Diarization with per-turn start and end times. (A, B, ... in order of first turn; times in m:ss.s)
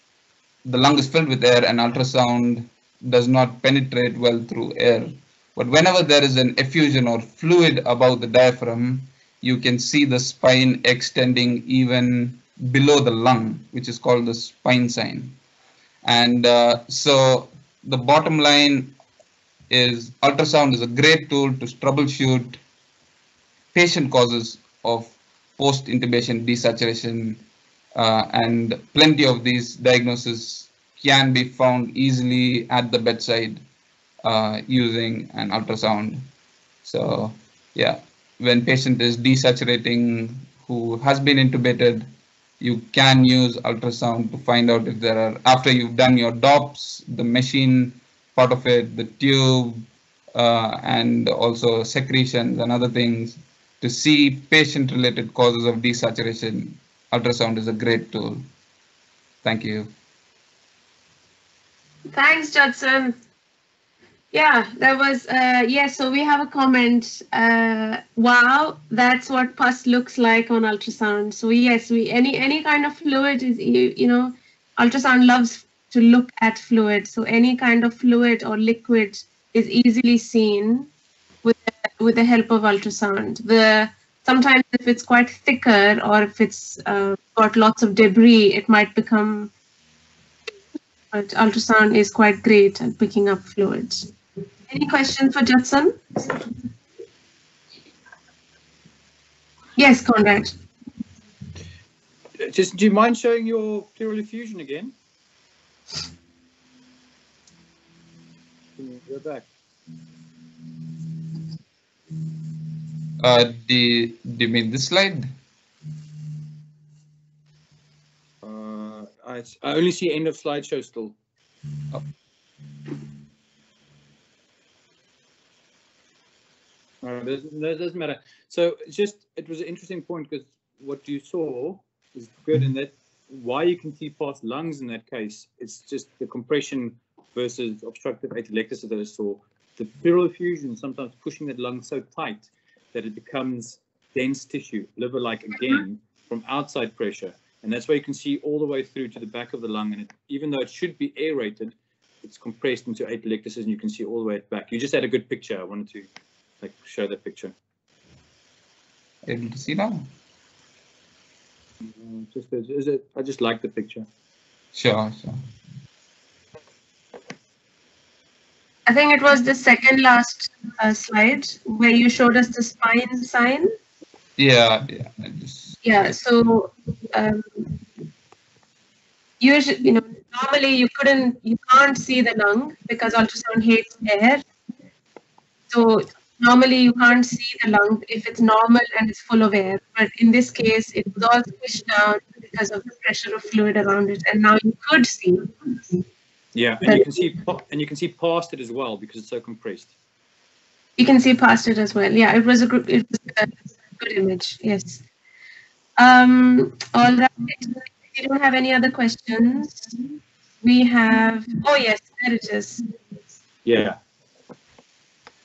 0:00.6-0:15.4 A
0:16.0-0:18.9 A
0:19.7-0:22.6 A
0:23.7-0:27.4 A
0:27.9-0:33.6 A
0:34.2-0:36.3 A
0:36.8-0:58.5 A
0:59.4-0:59.9 A
1:02.1-1:03.1 B
1:04.3-1:20.9 B
1:21.4-1:29.5 B
1:31.1-1:34.1 B
1:34.7-1:36.4 B
1:39.8-1:40.5 B
1:42.4-1:44.9 C
1:48.8-1:49.5 C
1:53.2-1:55.3 A
1:58.4-2:01.2 C
2:07.0-2:36.1 C
2:36.6-2:37.5 C
2:39.2-2:40.1 A
2:41.8-2:44.1 C
2:44.7-2:45.4 A
2:48.9-2:53.7 B
2:54.4-2:55.8 A
2:55.8-2:57.7 B
2:59.4-3:04.4 B
3:05.7-3:15.9 B
3:16.5-3:19.9 C
3:16.8-3:17.2 B
3:21.0-3:25.0 B
3:26.0-3:30.0 B
3:30.6-3:32.8 B
3:33.6-3:34.0 C